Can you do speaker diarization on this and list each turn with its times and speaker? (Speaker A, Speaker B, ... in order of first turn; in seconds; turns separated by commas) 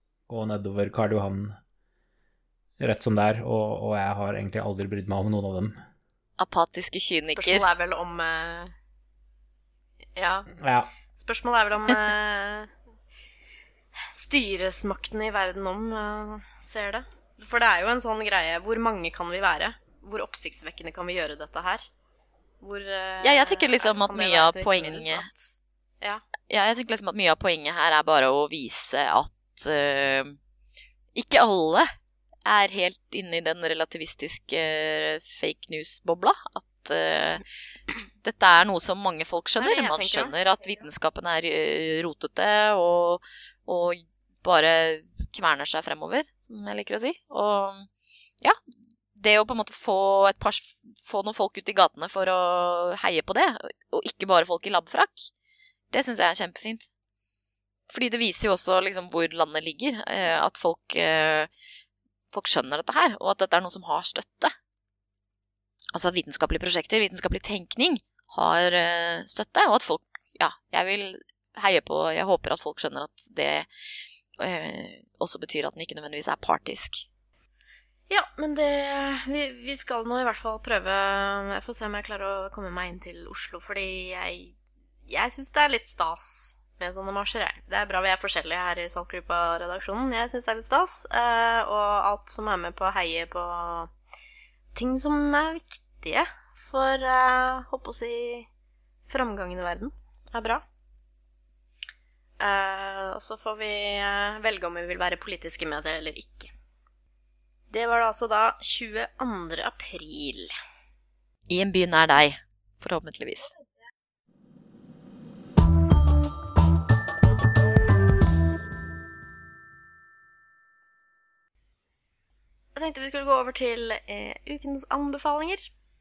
Speaker A: 0.3-1.6, Speaker A: 2.8-5.8, Speaker B: 6.4-7.7, Speaker C: 7.3-8.7, Speaker C: 10.2-10.5, Speaker A: 10.6-10.9, Speaker C: 11.2-12.7, Speaker C: 14.1-21.9, Speaker C: 22.6-26.2, Speaker B: 23.2-25.2, Speaker B: 26.5-30.4, Speaker B: 31.1-31.9, Speaker B: 32.5-37.4, Speaker B: 38.2-47.9, Speaker C: 39.6-40.3, Speaker B: 49.2-55.3, Speaker B: 55.9-56.9, Speaker B: 57.9-61.5, Speaker B: 62.3-64.5, Speaker B: 65.9-73.7, Speaker B: 74.4-77.1, Speaker C: 78.1-84.5, Speaker C: 85.1-93.9, Speaker C: 94.7-98.5, Speaker C: 99.1-100.7, Speaker C: 102.4-106.5, Speaker C: 107.7-110.5, Speaker B: 111.5-113.5, Speaker C: 122.8-125.7